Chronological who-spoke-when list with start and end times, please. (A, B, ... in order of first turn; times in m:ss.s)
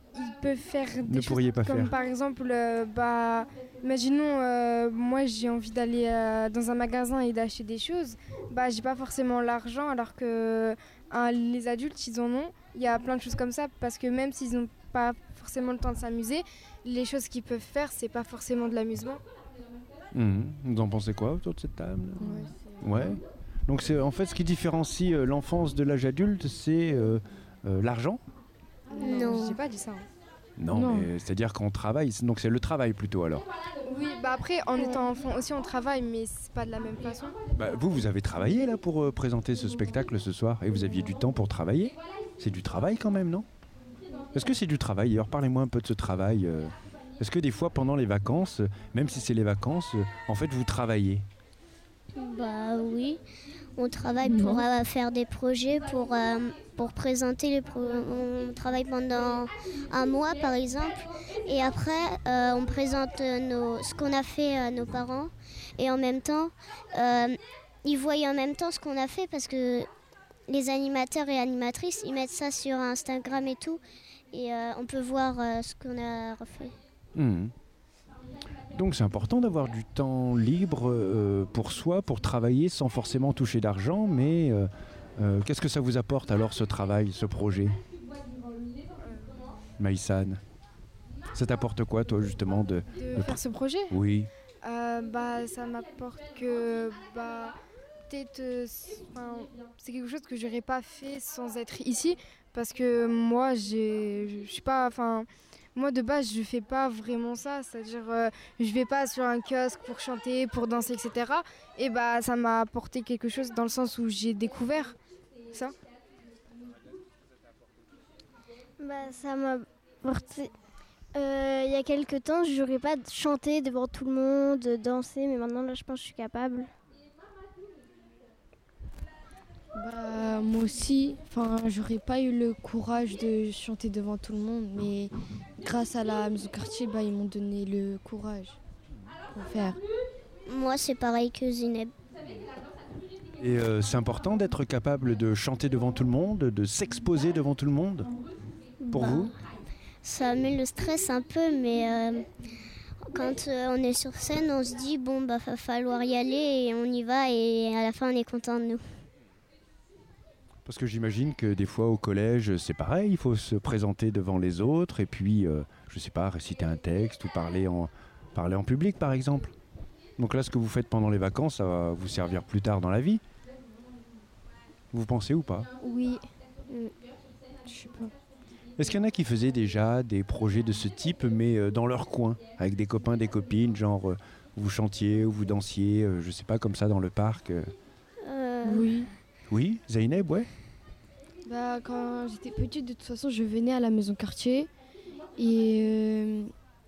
0:00.2-0:19.2 A
0:01.0-0:01.9 B
0:20.1-0:28.2 B
0:22.2-0:23.2 C
0:29.0-0:30.1 A
0:29.0-0:29.6 D
0:30.6-0:33.5 B
0:30.7-0:31.1 C
0:33.8-0:37.4 A
0:37.5-0:43.5 B
0:44.3-0:51.2 B
0:52.2-0:53.2 D
0:53.8-1:09.9 D
0:54.2-0:54.6 C
1:10.5-1:13.8 D
1:14.3-1:16.8 D
1:17.2-1:17.5 B
1:18.7-1:27.8 B
1:29.0-1:29.5 A
1:29.8-1:30.4 B
1:31.3-1:34.3 B
1:32.9-1:33.9 A
1:34.6-1:37.6 A
1:38.1-1:55.0 A
1:58.8-2:00.5 E
2:01.1-2:06.7 E
2:09.8-2:18.6 C
2:19.3-2:19.8 C
2:20.5-2:21.9 D
2:23.4-2:28.1 B
2:28.8-2:29.3 D
2:28.9-2:29.3 B
2:30.0-2:32.3 D
2:33.1-2:38.8 D
2:40.7-2:49.5 B
2:50.2-2:53.2 B
2:54.9-2:55.7 B
2:57.7-2:58.1 C
2:58.8-3:07.7 B
3:08.2-3:08.9 D
3:08.6-3:09.1 C
3:09.5-3:10.5 B
3:11.4-3:14.7 C
3:15.4-3:16.5 C